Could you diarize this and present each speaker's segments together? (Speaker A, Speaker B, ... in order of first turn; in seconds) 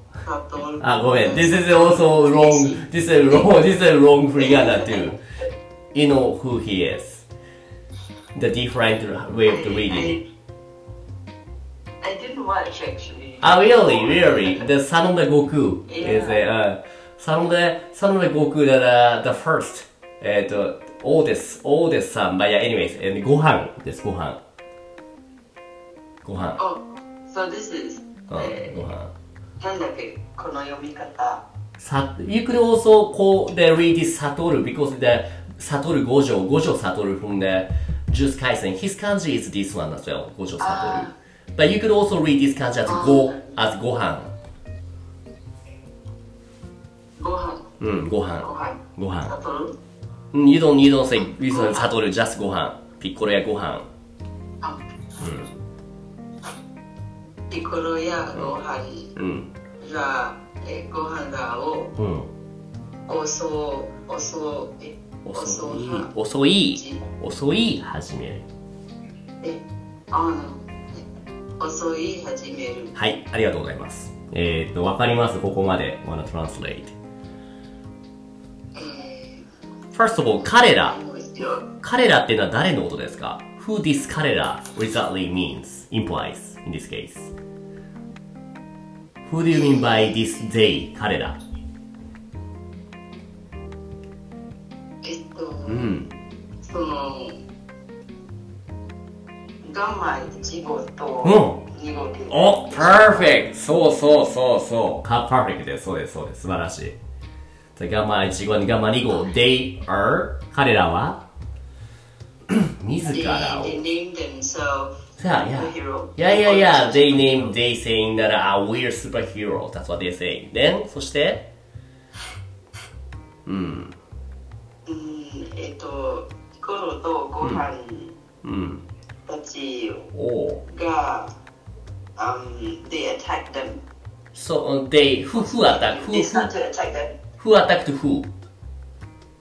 Speaker A: 0.2-3.5, 4.4-5.2, 9.5-10.2, 12.0-14.7, 15.9-16.4, 26.6-28.9, 29.6-31.4, 40.6-41.1, 42.9-43.5, 47.2-47.7, 48.4-49.8, 51.5-51.9, 57.5-59.2, 59.8-62.0, 63.1-66.1, 66.7-67.0, 69.4-71.0, 71.6-73.0, 78.8-79.5, 80.3-81.7, 89.5-90.5, 95.0-96.0, 96.6-97.4, 99.6-103.4, 113.1-117.6, 124.9-128.2, 129.3-130.1, 130.7-131.3, 132.2-133.8, 135.3-137.2
Speaker B: 0.8-5.2, 5.9-7.3, 8.3-10.2, 13.4-24.4, 26.2-26.6, 28.3-29.1, 31.8-44.3, 47.8-49.3, 50.3-53.9, 55.2-55.5, 59.2-59.5, 62.0-62.3, 65.2-68.5, 73.0-77.0, 79.9-81.0, 81.8-87.3, 89.3-91.4, 95.7-96.1, 101.2-101.6, 102.3-107.0, 107.8-111.2, 112.5-113.8, 115.2-121.5, 123.5-124.0, 128.4-128.8, 130.1-130.6, 134.3-136.5, 137.4-138.3